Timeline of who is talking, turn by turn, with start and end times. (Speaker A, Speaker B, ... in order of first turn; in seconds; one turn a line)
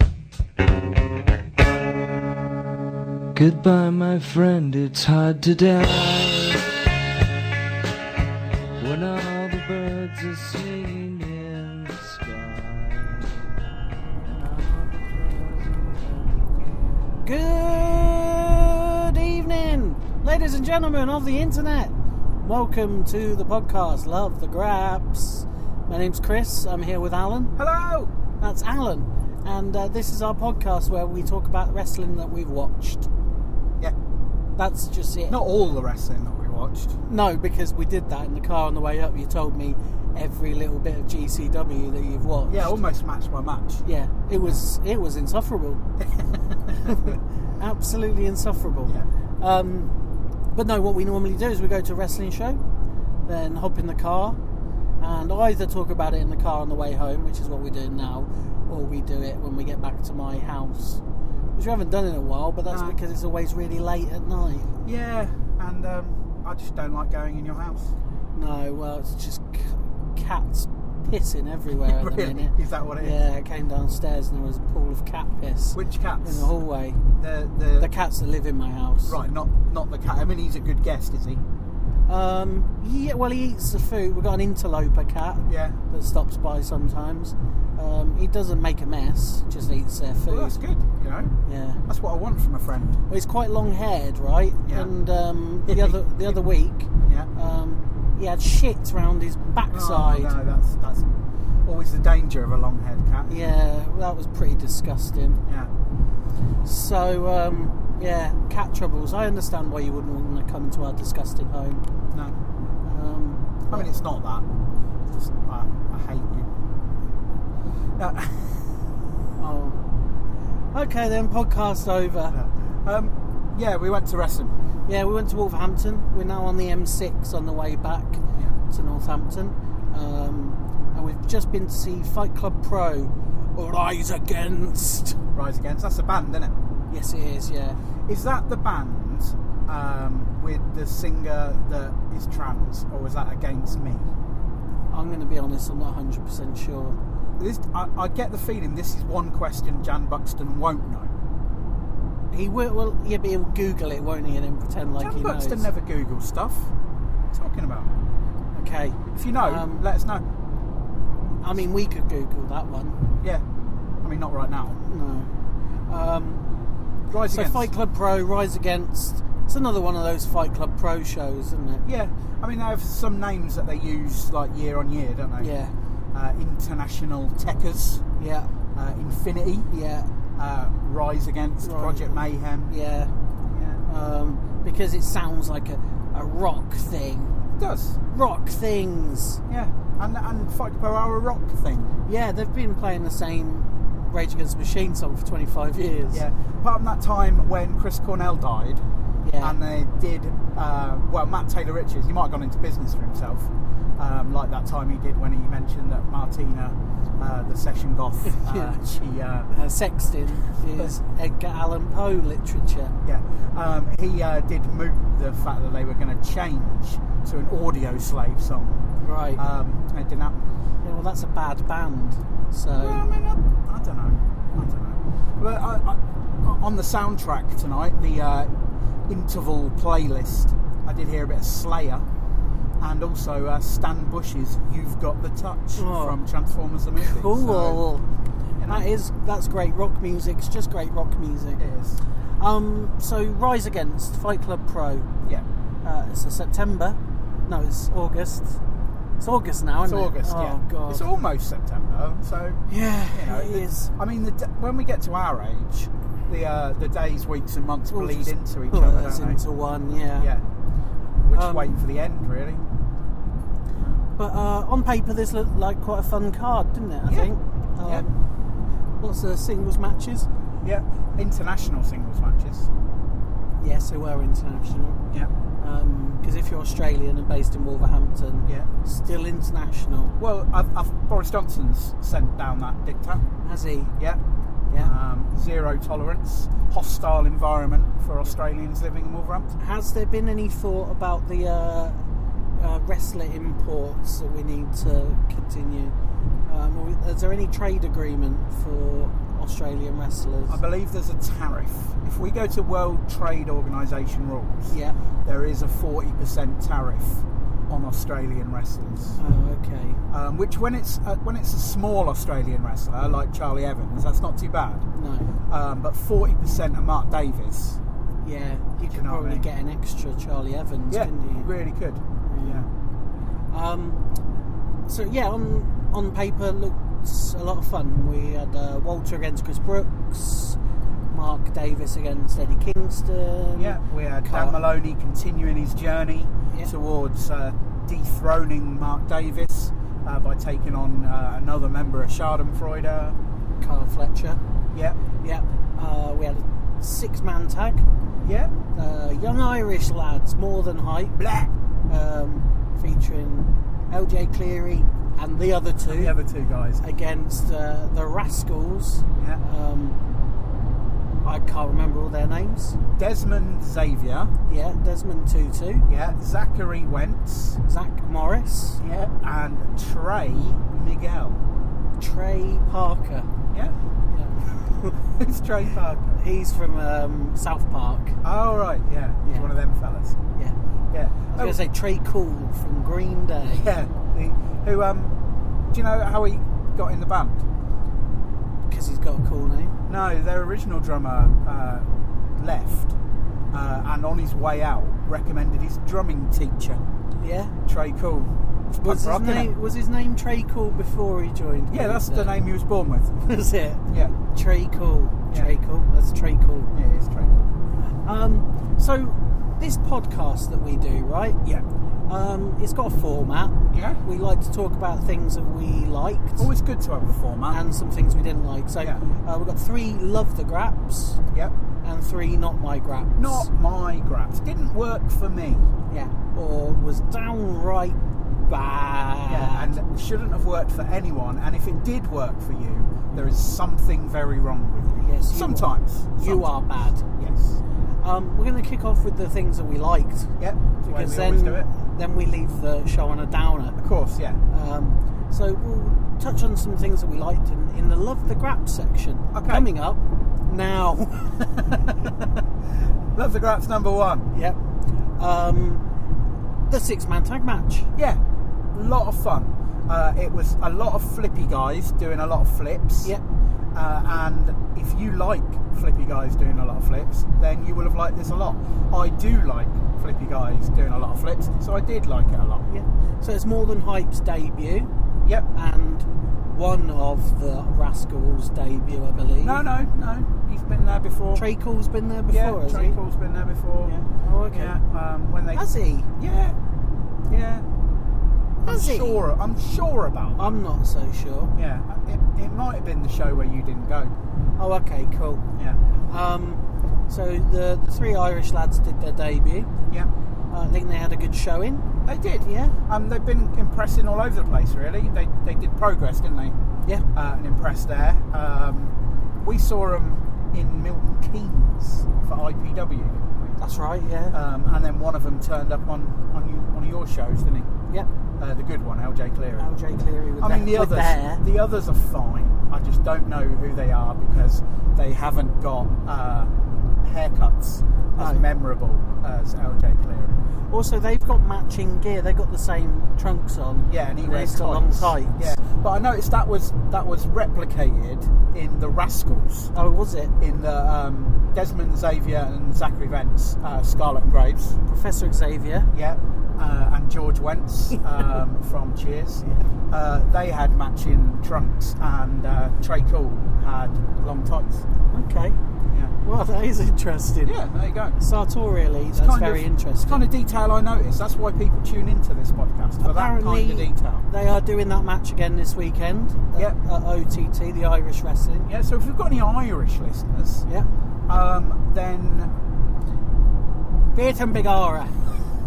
Speaker A: 3.4-6.7
Speaker A: 8.8-13.7
Speaker A: 14.2-16.7
Speaker B: 17.2-27.6
Speaker C: 27.6-28.1
Speaker B: 28.4-33.1
Speaker B: 34.6-35.4
Speaker C: 35.3-37.0
Speaker B: 37.0-42.8
Speaker C: 42.5-43.8
Speaker B: 43.8-45.8
Speaker C: 46.0-47.1
Speaker B: 46.8-49.9
Speaker B: 50.5-52.6
Speaker B: 53.3-54.4
Speaker B: 55.0-61.0
Speaker B: 61.5-64.7
Speaker C: 62.7-63.0
Speaker C: 64.8-67.9
Speaker B: 68.3-77.0
Speaker C: 71.8-73.2
Speaker C: 75.7-76.5
Speaker C: 77.2-77.9
Speaker B: 77.8-79.2
Speaker C: 79.1-81.4
Speaker B: 82.1-90.6
Speaker C: 85.5-85.8
Speaker C: 90.3-91.4
Speaker B: 91.5-91.8
Speaker C: 91.9-93.0
Speaker B: 93.1-100.3
Speaker C: 94.7-94.9
Speaker C: 95.7-96.4
Speaker C: 97.0-97.3
Speaker C: 99.7-101.1
Speaker C: 101.7-103.5
Speaker B: 103.3-105.4
Speaker C: 105.5-105.7
Speaker B: 106.6-111.8
Speaker B: 112.8-114.0
Speaker C: 113.7-114.5
Speaker C: 115.1-116.5
Speaker C: 118.0-118.8
Speaker B: 119.4-119.8
Speaker B: 120.7-122.4
Speaker C: 122.3-124.6
Speaker B: 124.9-135.2
Speaker C: 135.3-136.6
Speaker B: 136.9-137.8
Speaker C: 138.1-144.1
Speaker B: 144.9-147.0
Speaker C: 147.4-151.1
Speaker B: 152.3-155.7
Speaker C: 155.0-156.7
Speaker C: 157.3-157.9
Speaker B: 158.6-159.8
Speaker C: 159.1-160.2
Speaker B: 161.4-163.0
Speaker C: 164.0-164.8
Speaker B: 164.8-165.3
Speaker B: 165.9-166.5
Speaker C: 167.1-167.7
Speaker B: 167.3-171.8
Speaker C: 171.8-175.5
Speaker B: 175.4-175.7
Speaker C: 176.1-178.0
Speaker B: 178.2-178.5
Speaker C: 178.8-179.7
Speaker B: 179.7-180.1
Speaker C: 180.4-182.7
Speaker B: 181.6-183.1
Speaker C: 183.5-183.8
Speaker B: 183.9-187.3
Speaker C: 187.6-188.0
Speaker B: 188.1-189.4
Speaker C: 189.5-191.9
Speaker B: 192.1-196.2
Speaker C: 196.1-198.8
Speaker B: 199.2-199.6
Speaker C: 199.4-209.5
Speaker B: 208.3-208.8
Speaker B: 209.5-212.9
Speaker C: 210.7-211.0
Speaker C: 213.0-218.8
Speaker B: 219.0-219.4
Speaker C: 219.3-220.5
Speaker B: 220.8-223.0
Speaker C: 222.8-228.5
Speaker C: 229.1-232.1
Speaker C: 232.8-237.8
Speaker B: 235.8-236.2
Speaker B: 237.0-238.1
Speaker C: 238.6-238.9
Speaker B: 238.7-241.6
Speaker C: 241.6-242.0
Speaker B: 242.4-245.1
Speaker B: 245.8-248.6
Speaker B: 249.2-251.0
Speaker C: 249.8-259.4
Speaker B: 252.7-253.9
Speaker B: 257.9-260.3
Speaker C: 260.2-260.4
Speaker C: 261.2-262.6
Speaker B: 261.3-261.8
Speaker B: 264.2-268.1
Speaker B: 269.0-270.3
Speaker C: 270.6-272.7
Speaker B: 273.6-275.0
Speaker B: 275.6-280.1
Speaker C: 280.2-283.2
Speaker B: 283.4-283.9
Speaker C: 284.8-289.5
Speaker B: 289.6-292.0
Speaker B: 292.6-295.9
Speaker B: 296.5-300.6
Speaker C: 300.5-309.2
Speaker B: 304.7-305.0
Speaker B: 309.2-310.0
Speaker C: 310.1-314.9
Speaker B: 314.9-315.3
Speaker C: 315.5-317.8
Speaker B: 318.2-321.5
Speaker C: 318.9-319.5
Speaker C: 320.9-322.7
Speaker B: 322.3-322.7
Speaker B: 323.5-324.0
Speaker B: 324.9-330.6
Speaker B: 331.1-334.6
Speaker C: 333.6-343.2
Speaker B: 343.6-344.4
Speaker C: 344.7-345.0
Speaker B: 345.2-347.9
Speaker C: 348.2-348.5
Speaker B: 348.7-351.2
Speaker C: 351.1-351.5
Speaker B: 351.9-356.1
Speaker C: 355.8-356.8
Speaker B: 356.8-360.0
Speaker B: 361.2-362.8
Speaker C: 363.0-364.3
Speaker B: 364.5-365.9
Speaker C: 365.9-367.6
Speaker B: 367.6-368.8
Speaker C: 368.8-371.4
Speaker B: 372.0-373.3
Speaker B: 374.1-375.1
Speaker C: 375.1-376.2
Speaker B: 376.2-378.2
Speaker C: 378.2-380.2
Speaker C: 380.9-381.6
Speaker B: 381.3-383.7
Speaker C: 383.5-385.1
Speaker C: 385.7-387.4
Speaker B: 388.7-389.8
Speaker C: 389.9-392.9
Speaker C: 393.5-396.8
Speaker B: 397.1-397.6
Speaker C: 397.7-399.5
Speaker B: 398.8-402.4
Speaker C: 401.7-403.2
Speaker B: 403.2-406.7
Speaker C: 403.9-404.1
Speaker C: 406.7-407.5
Speaker B: 408.0-411.4
Speaker B: 412.1-416.5
Speaker C: 413.7-414.0
Speaker C: 416.4-417.6
Speaker B: 417.5-421.2
Speaker B: 421.8-423.5
Speaker C: 423.2-425.7
Speaker B: 425.9-429.8
Speaker C: 429.3-437.6
Speaker B: 435.0-437.0
Speaker B: 438.0-440.3
Speaker C: 440.4-441.7
Speaker B: 440.9-443.8
Speaker C: 443.8-444.4
Speaker B: 444.5-451.5
Speaker C: 449.3-449.7
Speaker C: 451.4-452.3
Speaker C: 453.1-454.3
Speaker B: 454.3-454.6
Speaker B: 455.2-455.8
Speaker B: 456.7-457.9
Speaker C: 458.7-463.1
Speaker C: 463.7-472.7
Speaker B: 472.7-474.9
Speaker B: 475.5-479.6
Speaker C: 479.4-481.4
Speaker B: 481.3-483.0
Speaker C: 482.3-483.9
Speaker B: 483.8-484.8
Speaker C: 484.5-485.6
Speaker B: 485.5-486.1
Speaker C: 486.2-486.6
Speaker C: 487.3-487.6
Speaker B: 488.6-489.2
Speaker C: 488.6-490.5
Speaker B: 490.4-491.6
Speaker C: 491.6-494.1
Speaker B: 494.6-495.4
Speaker B: 496.1-499.7
Speaker B: 500.5-501.9
Speaker C: 502.1-506.6
Speaker B: 502.4-502.8
Speaker C: 507.1-513.6
Speaker B: 513.6-514.4
Speaker C: 514.3-517.7
Speaker C: 518.4-519.7
Speaker B: 519.6-521.4
Speaker C: 520.4-526.5
Speaker C: 527.0-530.4
Speaker B: 528.2-528.5
Speaker B: 530.7-535.6
Speaker C: 533.9-539.7
Speaker B: 539.7-540.3
Speaker C: 540.4-544.8
Speaker B: 544.9-545.9
Speaker C: 545.9-554.9
Speaker B: 555.1-555.6
Speaker B: 556.2-557.6
Speaker C: 557.5-558.2
Speaker B: 558.2-560.2
Speaker C: 559.1-564.3
Speaker B: 563.0-568.7
Speaker C: 568.7-570.7
Speaker C: 571.3-572.5
Speaker B: 574.1-575.3